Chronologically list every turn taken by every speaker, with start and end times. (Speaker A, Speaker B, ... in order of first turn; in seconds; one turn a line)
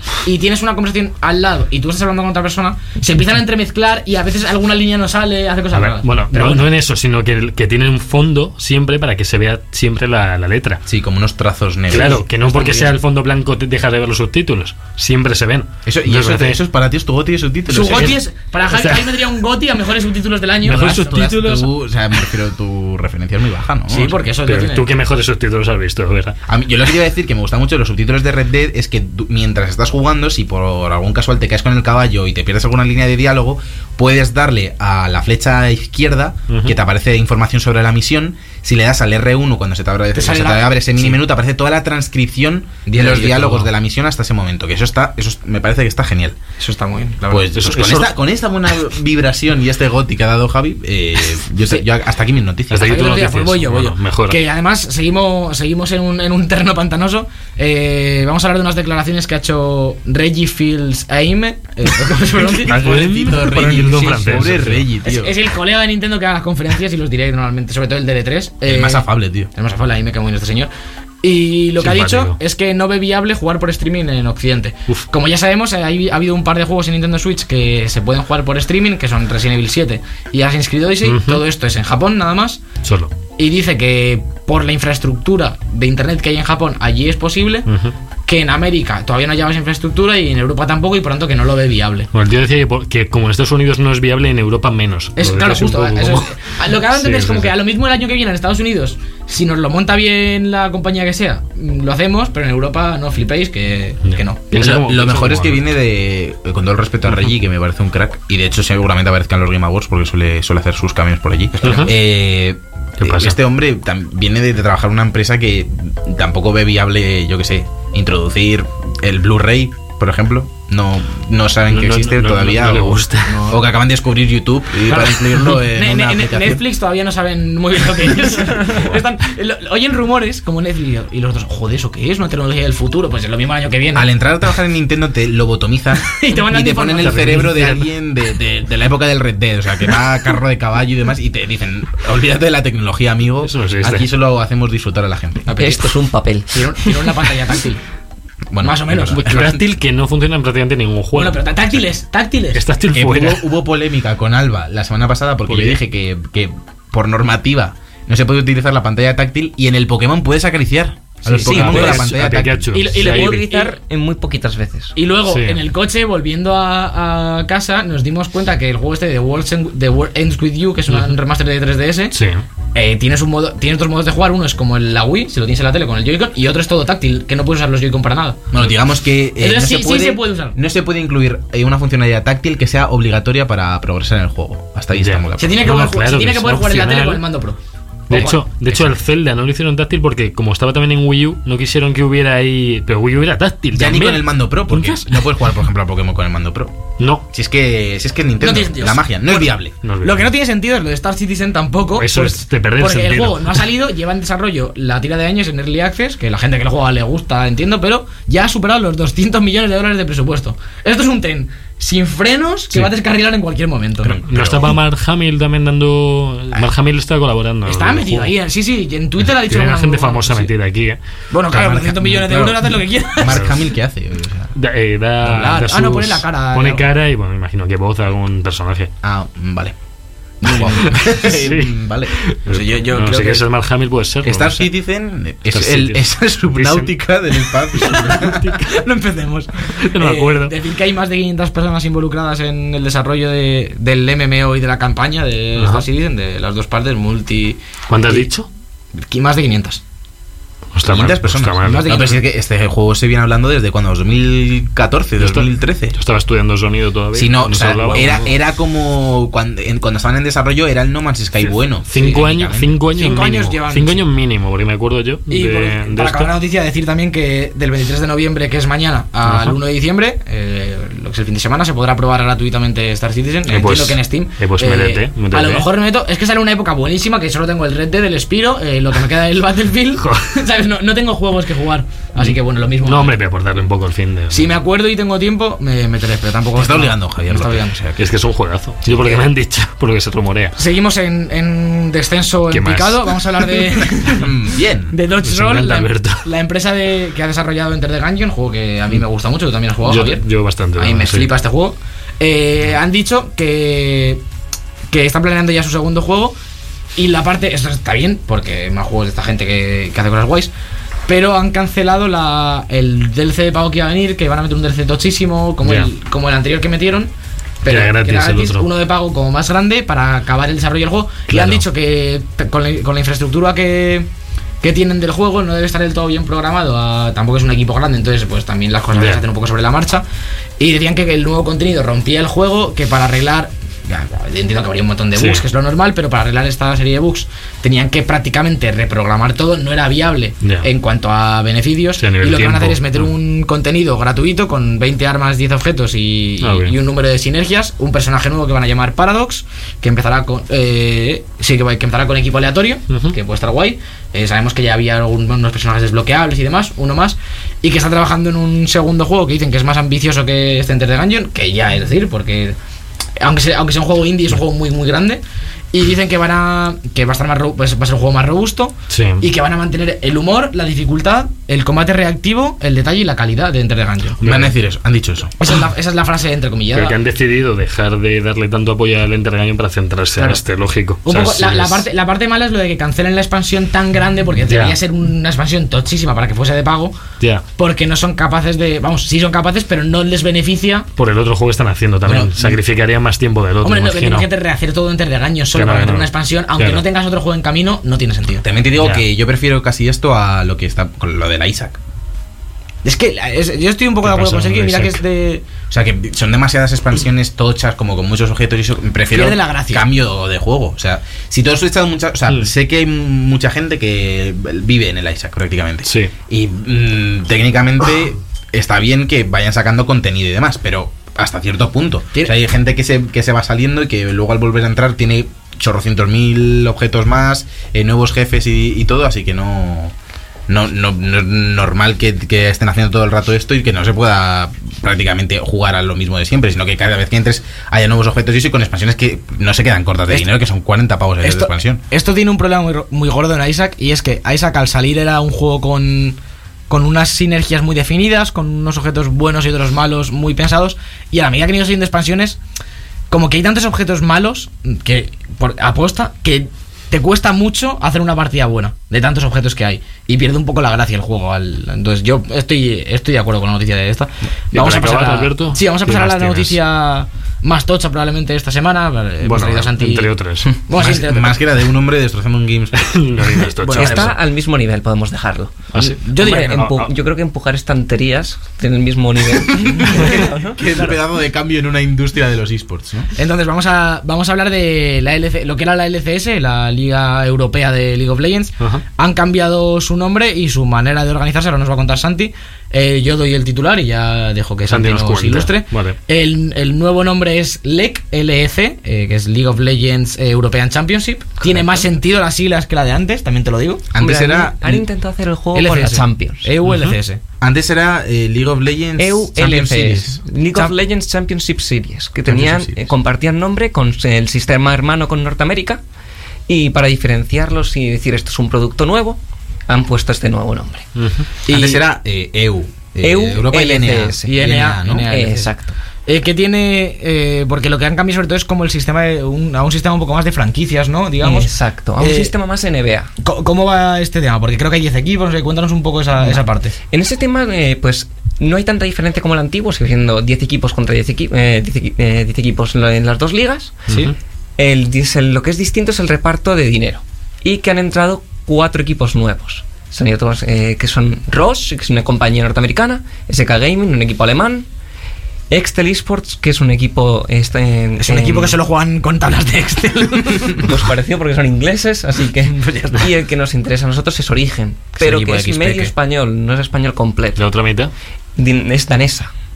Speaker A: 0.2-6.7
Speaker B: 5.7-10.8
Speaker C: 10.9-12.9
Speaker B: 11.9-16.6
Speaker A: 11.9-12.8
Speaker C: 15.9-18.2
Speaker A: 17.7-21.6
Speaker B: 17.9-19.2
Speaker B: 20.6-21.7
Speaker C: 21.3-24.2
Speaker A: 23.9-24.9
Speaker B: 24.4-26.4
Speaker C: 26.5-46.4
Speaker B: 36.5-36.8
Speaker A: 40.1-41.2
Speaker A: 42.9-43.6
Speaker A: 46.6-47.5
Speaker C: 47.3-53.1
Speaker B: 47.5-48.1
Speaker B: 52.7-54.4
Speaker A: 52.8-70.7
Speaker B: 62.5-64.9
Speaker C: 62.6-65.3
Speaker C: 68.7-69.5
Speaker A: 71.2-82.6
Speaker B: 71.8-72.4
Speaker B: 81.0-81.4
Speaker B: 82.8-83.1
Speaker A: 83.4-87.7
Speaker B: 87.7-87.9
Speaker A: 88.3-92.1
Speaker B: 92.1-97.5
Speaker A: 95.2-104.4
Speaker B: 104.0-105.6
Speaker C: 104.5-126.6
Speaker B: 111.6-111.9
Speaker B: 113.0-113.4
Speaker B: 121.7-123.4
Speaker A: 123.3-123.7
Speaker A: 124.9-134.1
Speaker C: 133.9-145.5
Speaker A: 136.0-137.5
Speaker B: 137.0-137.9
Speaker B: 143.4-144.1
Speaker A: 145.5-145.9
Speaker D: 145.6-146.6
Speaker A: 146.5-147.8
Speaker C: 148.5-149.6
Speaker A: 148.6-149.5
Speaker B: 149.1-151.4
Speaker A: 151.1-152.6
Speaker B: 152.5-153.5
Speaker C: 152.9-162.7
Speaker B: 155.5-155.8
Speaker B: 161.3-163.4
Speaker A: 161.3-162.0
Speaker D: 161.5-162.0
Speaker A: 162.7-163.8
Speaker D: 162.9-164.9
Speaker A: 165.0-172.2
Speaker B: 165.3-165.6
Speaker B: 170.9-171.2
Speaker B: 172.1-172.4
Speaker A: 172.7-178.4
Speaker C: 178.5-185.7
Speaker A: 179.4-180.6
Speaker B: 184.9-187.2
Speaker A: 185.4-187.6
Speaker B: 188.1-195.3
Speaker A: 188.1-188.4
Speaker C: 193.7-196.8
Speaker B: 197.0-197.2
Speaker C: 197.3-199.8
Speaker A: 198.4-214.2
Speaker B: 199.8-200.3
Speaker B: 201.9-203.7
Speaker C: 214.0-214.7
Speaker B: 214.1-218.3
Speaker A: 217.7-220.5
Speaker B: 219.2-221.0
Speaker A: 221.3-223.5
Speaker C: 221.5-224.5
Speaker B: 223.2-223.6
Speaker B: 224.6-228.9
Speaker A: 225.2-226.9
Speaker C: 229.0-229.8
Speaker C: 230.4-232.2
Speaker A: 230.4-230.8
Speaker B: 230.5-234.7
Speaker A: 232.5-233.4
Speaker C: 234.2-238.6
Speaker B: 235.5-236.9
Speaker B: 237.8-238.7
Speaker A: 238.6-248.3
Speaker B: 239.8-240.6
Speaker B: 245.6-245.9
Speaker B: 247.9-248.5
Speaker A: 249.1-249.8
Speaker B: 250.7-252.2
Speaker C: 250.9-256.0
Speaker A: 251.6-252.2
Speaker B: 255.2-258.3
Speaker C: 257.1-262.8
Speaker B: 261.4-266.3
Speaker A: 262.9-264.0
Speaker A: 265.3-283.2
Speaker B: 269.2-269.6
Speaker B: 273.5-275.7
Speaker B: 280.0-280.3
Speaker B: 282.2-284.6
Speaker A: 284.3-287.8
Speaker C: 286.6-288.1
Speaker B: 288.0-290.6
Speaker A: 288.9-289.2
Speaker A: 290.6-294.3
Speaker B: 292.5-293.6
Speaker C: 294.1-295.0
Speaker A: 294.9-300.2
Speaker B: 295.2-296.2
Speaker B: 299.9-301.3
Speaker A: 300.8-304.2
Speaker A: 304.9-306.4
Speaker A: 307.0-310.5
Speaker A: 311.1-317.1
Speaker B: 315.6-315.9
Speaker A: 317.6-324.1
Speaker B: 317.7-318.7
Speaker B: 321.3-321.6
Speaker A: 324.6-330.1
Speaker B: 328.9-329.2
Speaker A: 330.6-362.6
Speaker B: 335.1-335.4
Speaker B: 342.0-343.1
Speaker B: 346.4-346.8
Speaker B: 352.9-353.2
Speaker A: 363.2-374.2
Speaker B: 368.9-369.2
Speaker B: 374.2-374.6
Speaker C: 374.2-375.3
Speaker A: 375.4-377.0
Speaker B: 376.7-381.9
Speaker A: 381.1-387.0
Speaker B: 384.5-384.8
Speaker A: 387.6-390.9
Speaker B: 391.0-394.3
Speaker C: 392.1-392.6
Speaker A: 393.6-398.5
Speaker B: 395.5-396.8
Speaker C: 398.4-401.8
Speaker B: 398.8-399.0
Speaker A: 402.8-405.4
Speaker B: 404.0-405.0
Speaker C: 405.7-429.9
Speaker A: 409.1-409.9
Speaker B: 415.9-416.1
Speaker C: 430.5-441.8
Speaker A: 441.2-446.2
Speaker A: 446.7-452.4
Speaker A: 453.1-471.4
Speaker B: 464.5-466.6
Speaker B: 469.2-470.5
Speaker C: 470.8-473.0
Speaker B: 472.8-474.1
Speaker A: 473.6-474.1
Speaker D: 473.8-480.6
Speaker B: 475.7-476.9
Speaker A: 475.8-476.7
Speaker A: 479.8-480.2
Speaker C: 479.9-483.1
Speaker A: 483.2-503.9
Speaker B: 494.7-496.0
Speaker C: 503.9-504.9
Speaker D: 504.0-506.5
Speaker A: 505.5-507.2
Speaker B: 506.6-507.0
Speaker C: 507.4-510.2
Speaker D: 509.0-515.8
Speaker C: 512.3-512.9
Speaker D: 516.5-520.9
Speaker B: 521.0-521.3
Speaker A: 521.5-521.8
Speaker C: 521.5-525.1
Speaker D: 523.0-524.4
Speaker A: 524.3-525.5
Speaker D: 525.1-525.8
Speaker A: 526.1-532.3
Speaker D: 531.2-533.1
Speaker A: 533.2-536.8
Speaker D: 536.2-543.8
Speaker B: 543.9-544.1
Speaker A: 543.9-544.1
Speaker D: 544.6-554.7
Speaker D: 555.5-558.6
Speaker A: 558.0-560.7
Speaker D: 560.6-567.4
Speaker A: 562.5-563.1
Speaker A: 565.0-565.9
Speaker B: 567.4-567.9
Speaker D: 568.4-569.3